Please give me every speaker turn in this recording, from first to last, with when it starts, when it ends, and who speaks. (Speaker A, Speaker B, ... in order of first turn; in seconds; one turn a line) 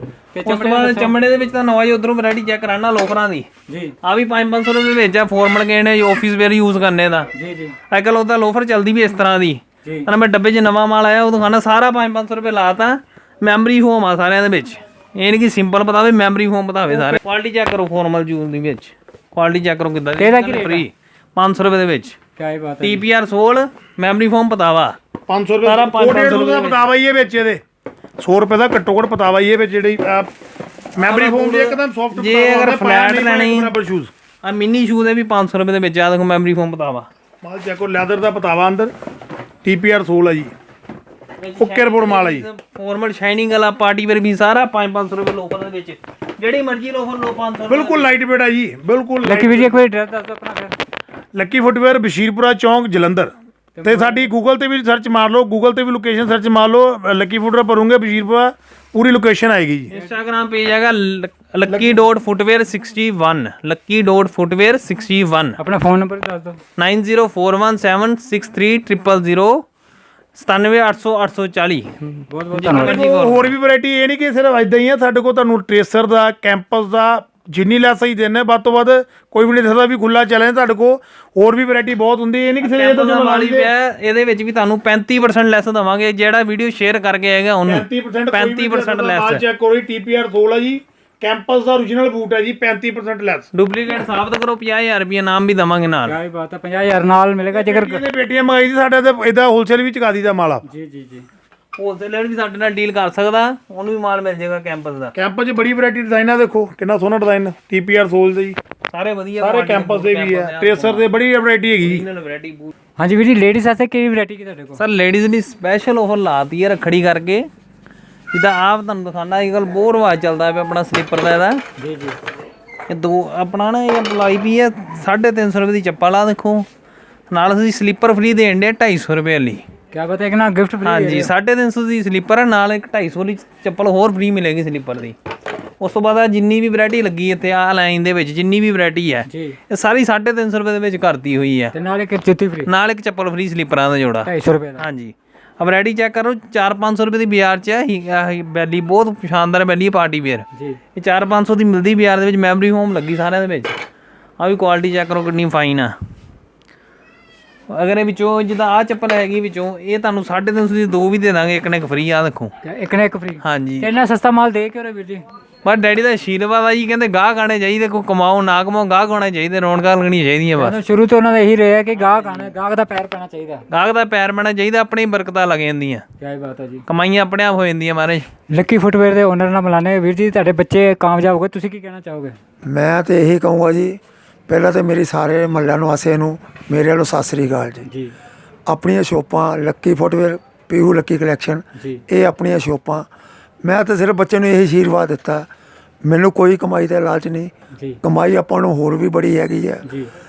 Speaker A: 0.3-1.1
Speaker B: 0.4-3.5
Speaker A: 3.7-4.0
Speaker B: 4.0-7.3
Speaker A: 7.3-7.8
Speaker B: 7.9-22.2
Speaker A: 16.9-17.2
Speaker A: 20.2-20.9
Speaker A: 22.4-23.0
Speaker B: 22.8-24.9
Speaker C: 25.3-27.6
Speaker B: 25.6-26.9
Speaker C: 28.2-30.3
Speaker C: 30.9-34.1
Speaker B: 31.0-33.7
Speaker B: 34.4-37.1
Speaker C: 37.4-38.9
Speaker C: 39.6-40.5
Speaker B: 41.4-48.1
Speaker C: 41.6-42.5
Speaker C: 47.7-49.8
Speaker A: 49.2-50.8
Speaker C: 51.3-53.3
Speaker A: 53.8-54.3
Speaker C: 53.8-59.9
Speaker B: 59.9-65.6
Speaker C: 61.7-62.0
Speaker A: 65.6-66.6
Speaker B: 66.8-69.6
Speaker B: 70.3-73.5
Speaker A: 72.3-73.0
Speaker C: 72.7-83.7
Speaker B: 82.6-89.4
Speaker C: 87.7-93.5
Speaker B: 93.5-96.2
Speaker A: 96.1-98.0
Speaker C: 97.5-100.6
Speaker A: 100.6-101.2
Speaker B: 101.8-105.1
Speaker C: 105.1-108.6
Speaker B: 108.9-111.0
Speaker C: 109.4-112.0
Speaker B: 111.8-112.7
Speaker A: 113.0-114.8
Speaker B: 114.8-117.5
Speaker B: 118.3-121.6
Speaker A: 121.8-122.2
Speaker B: 122.9-126.7
Speaker B: 127.3-129.6
Speaker A: 129.9-131.3
Speaker B: 130.8-135.1
Speaker B: 135.8-141.7
Speaker A: 139.3-139.6
Speaker A: 141.7-142.7
Speaker B: 142.7-153.8
Speaker A: 144.2-144.8
Speaker A: 150.5-150.8
Speaker B: 154.4-155.9
Speaker B: 157.7-162.5
Speaker A: 162.6-165.2
Speaker B: 163.4-163.9
Speaker B: 165.6-170.8
Speaker A: 170.6-173.6
Speaker B: 172.0-172.5
Speaker B: 173.7-176.0
Speaker A: 176.2-176.8
Speaker B: 176.9-178.2
Speaker A: 178.5-182.3
Speaker D: 182.6-187.9
Speaker A: 187.9-188.1
Speaker D: 188.7-193.1
Speaker A: 191.8-192.0
Speaker D: 193.6-195.5
Speaker D: 196.0-197.5
Speaker D: 198.0-199.8
Speaker A: 199.8-200.1